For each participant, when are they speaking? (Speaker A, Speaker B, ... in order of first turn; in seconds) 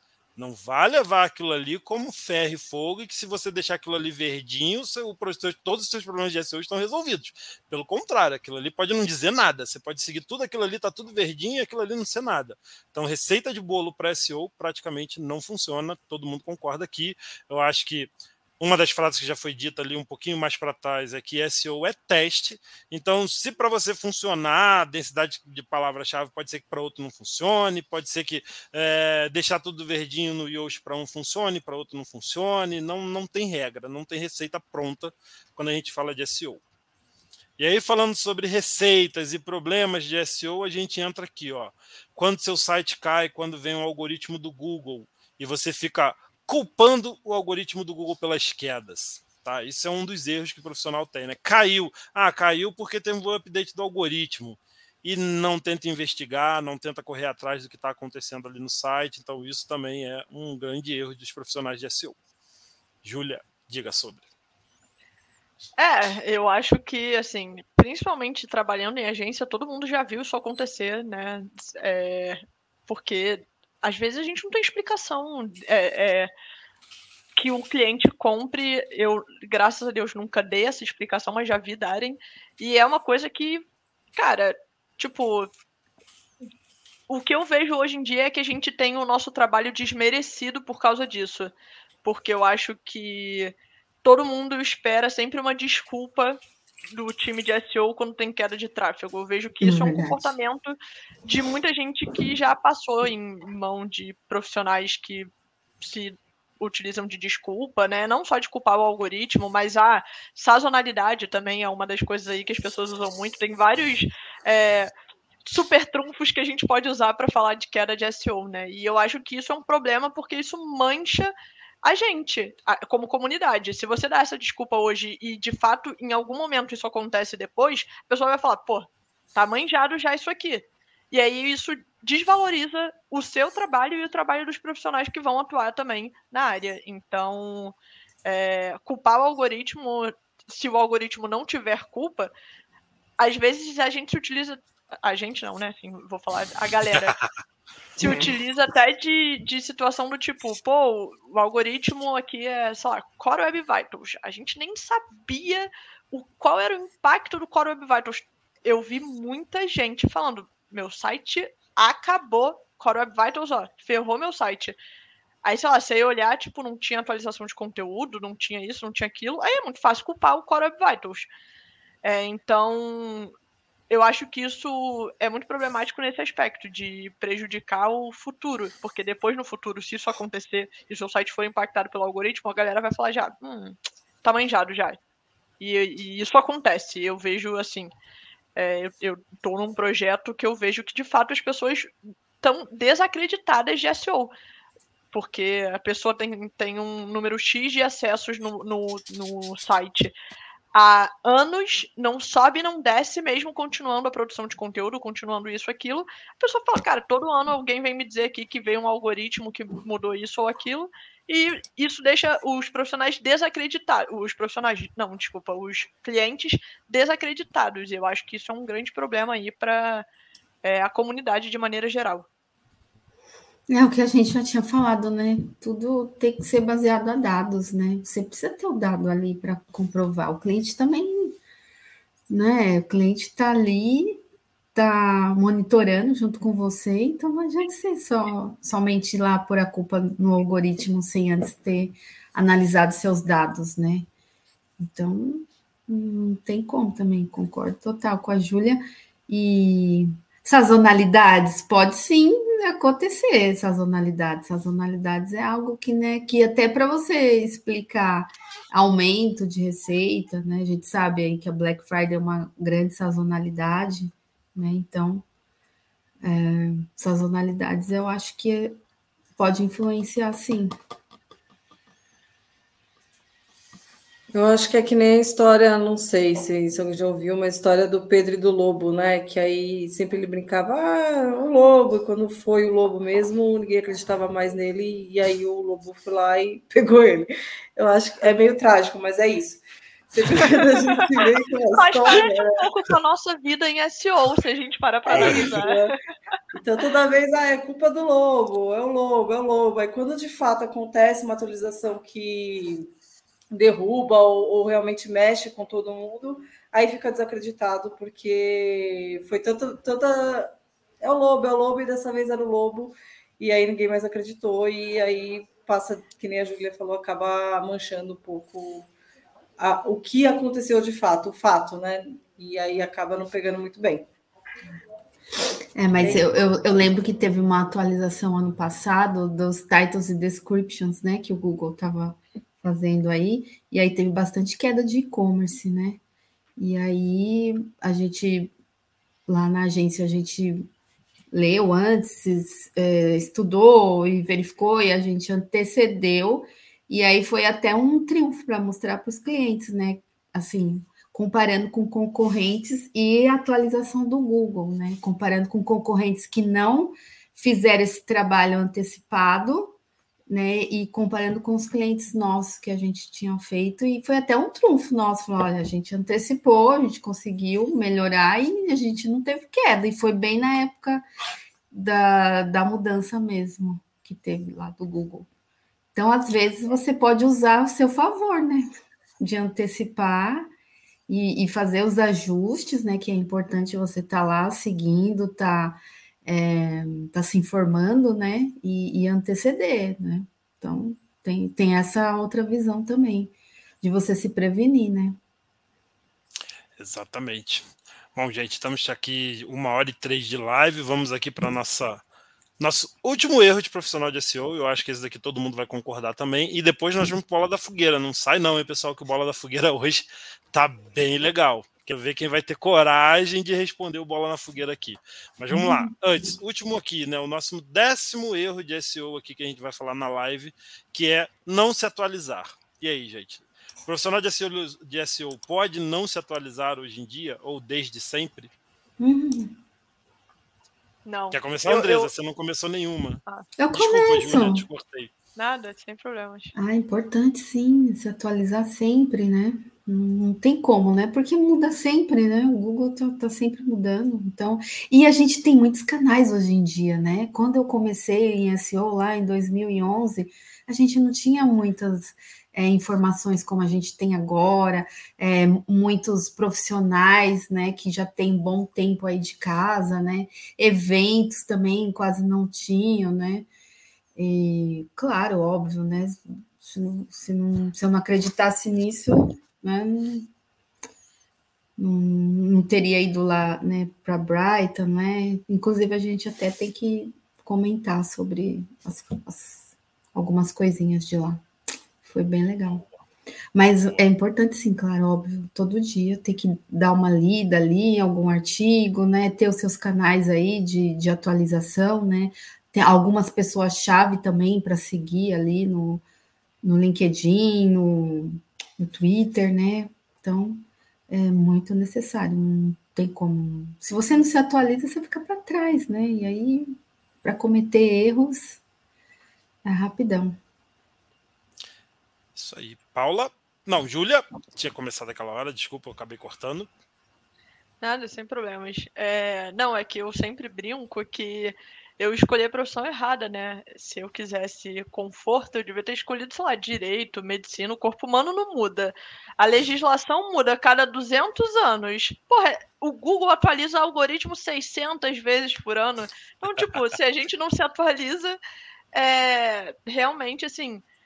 Speaker A: 0.4-36.6, 37.6-62.2, 63.0-64.2, 295.1-295.5, 396.8-402.0, 402.6-428.5, 431.3-433.2, 433.7-435.1, 512.4-516.7
Speaker B: 65.8-76.3, 77.4-83.7, 84.2-85.5, 87.1-91.5, 92.0-105.3, 105.8-114.9, 115.5-121.3, 121.8-142.3, 143.2-147.2, 148.0-164.8, 165.4-171.3, 172.0-173.3, 173.9-185.0, 185.6-187.9, 188.6-191.9, 192.4-194.3, 195.1-200.1, 200.7-220.1, 220.6-222.3, 291.7-295.9, 431.1-432.1, 435.4-436.5, 517.8-538.4, 538.9-540.8
Speaker C: 99.6-100.3, 148.0-148.3, 223.7-231.3, 232.3-234.2, 234.8-244.1, 244.8-265.2, 266.2-268.8, 269.4-270.7, 325.8-336.0, 336.6-338.5, 339.3-340.7, 341.3-359.8, 360.3-371.1, 371.7-375.3, 375.9-378.7, 379.2-380.5, 381.1-395.2, 415.5-415.9, 429.0-429.6, 433.6-434.6, 436.6-463.5, 464.2-470.3, 471.8-481.4, 482.0-482.9, 483.5-496.0, 496.6-508.6, 509.6-510.4
Speaker D: 274.3-292.7, 295.1-296.0, 296.5-302.9, 303.5-318.9, 319.6-324.1, 326.0-326.2